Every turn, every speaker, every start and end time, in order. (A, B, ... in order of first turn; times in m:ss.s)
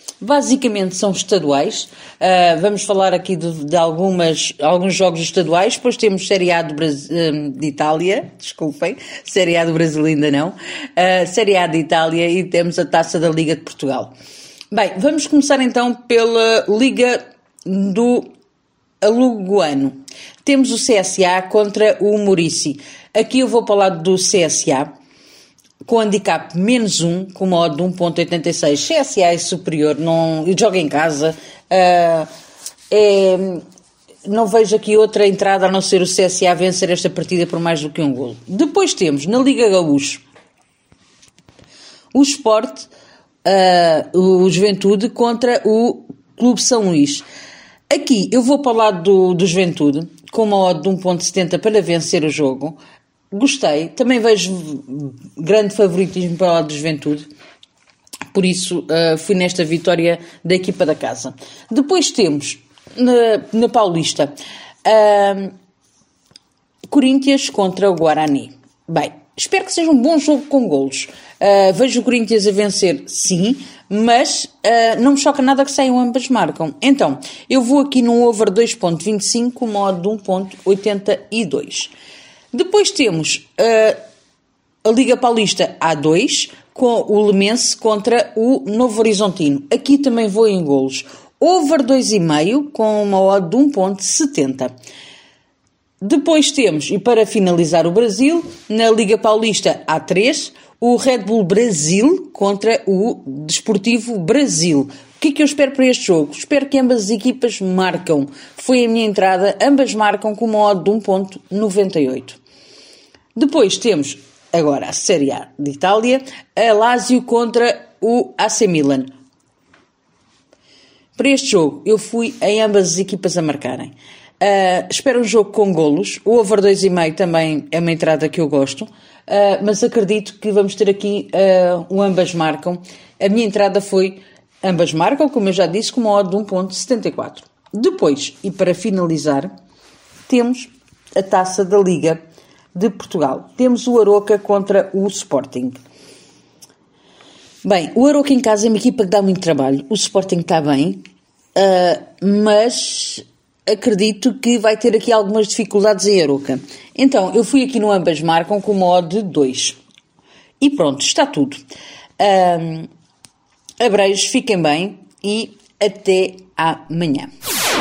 0:00.2-0:14.1 A
0:14.7-0:18.3 A
0:19.0-0:24.9 A
0:25.8-0:32.3 A
0:32.9-0:33.6 A
0:34.2-0:40.2 A
0:42.1-0:42.9 A
0:43.4-0:47.2 A
0:47.9-0:52.8 A
0:53.3-0:57.3 A
0:58.3-1:04.3 A
1:04.8-1:05.5 A
1:06.9-1:21.9 A
1:22.5-1:24.0 A
1:24.8-1:34.7 A
1:36.0-1:52.4 A
1:53.4-1:59.1 A
2:01.2-2:19.5 A
2:20.3-2:22.2 A
2:22.7-2:25.8 A
2:27.6-2:31.0 A
2:31.5-2:39.8 A
2:40.6-2:41.6 A
2:42.2-2:42.9 A
2:43.8-2:47.3 A